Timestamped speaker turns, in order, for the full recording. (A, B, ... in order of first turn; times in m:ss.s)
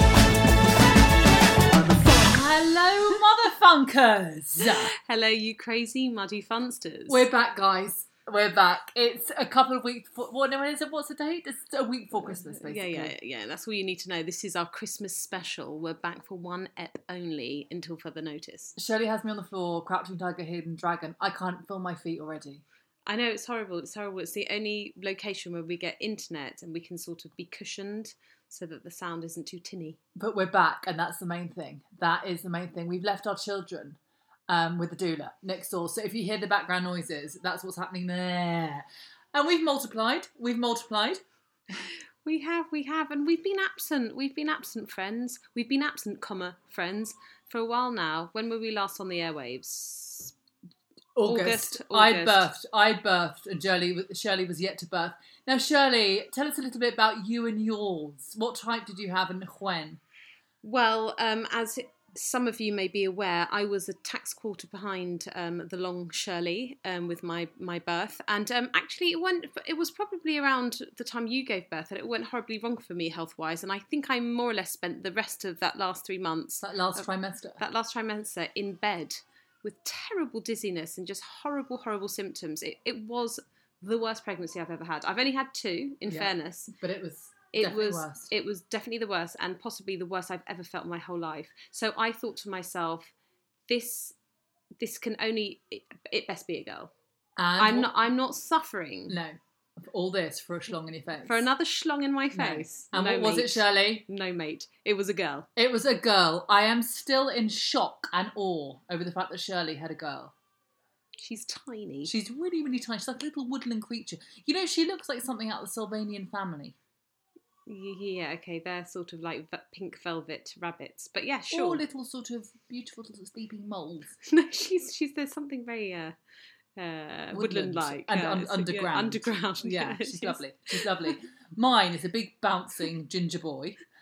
0:01.7-0:04.9 A
0:04.6-0:07.3 B
0:07.1-0:13.1 A
0:12.1-0:18.8 B
0:18.8-0:22.6 A
0:23.1-0:30.0 B
0:30.2-0:41.2 A
0:42.2-0:50.3 B
0:51.2-1:00.0 A
0:51.2-0:52.5 B
1:00.6-1:17.1 B
1:16.6-1:17.6 A
1:17.6-1:26.7 B
1:26.1-1:28.3 A
1:27.5-1:33.1 B
1:33.7-1:34.2 B
1:34.8-1:36.9 B
1:37.4-1:38.0 A
1:37.6-1:39.2 B
1:39.1-1:41.5 A
1:41.2-1:45.5 B
1:42.3-1:44.0 A
1:45.6-1:50.3 A
1:51.2-1:52.1 B
1:52.1-1:56.8 A
1:57.7-2:01.8 B
2:01.5-2:04.2 A
2:04.2-2:06.2 B
2:06.8-2:11.2 B
2:07.3-2:13.8 A